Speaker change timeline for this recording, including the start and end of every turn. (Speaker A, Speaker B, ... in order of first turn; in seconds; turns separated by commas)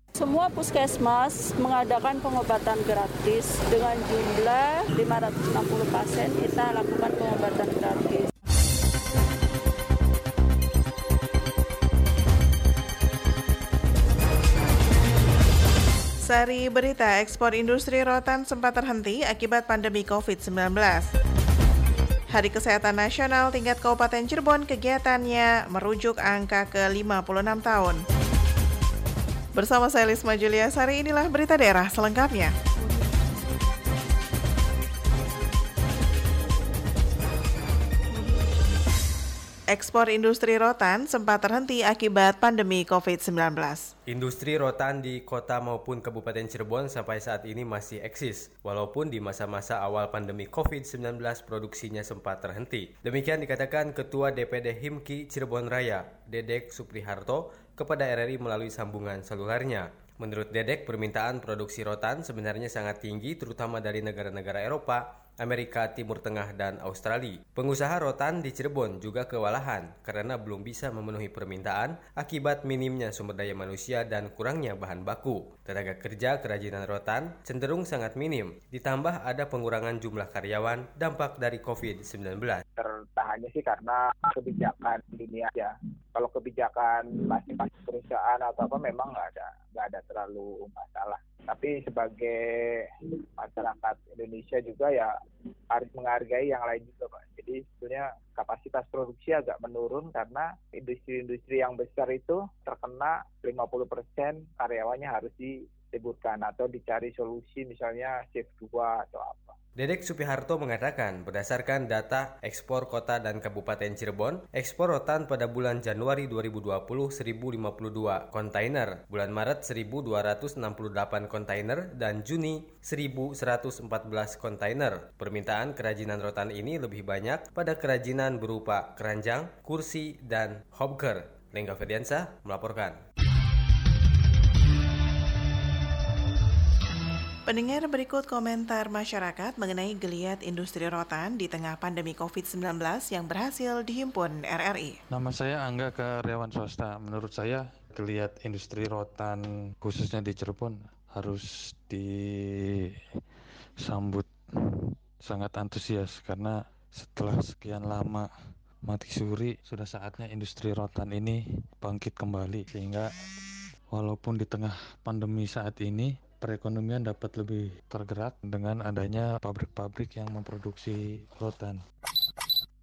Speaker A: 0.2-8.3, Speaker B: 16.2-21.1, Speaker B: 22.3-28.0, Speaker B: 29.6-32.5, Speaker B: 39.7-43.9, Speaker C: 44.1-82.6, Speaker D: 82.8-92.4, Speaker D: 93.4-95.1, Speaker D: 95.7-109.6, Speaker C: 109.8-133.0, Speaker B: 137.5-145.0, Speaker E: 145.1-152.2, Speaker E: 153.8-154.3, Speaker E: 155.2-158.3, Speaker E: 158.8-163.1, Speaker E: 163.9-171.8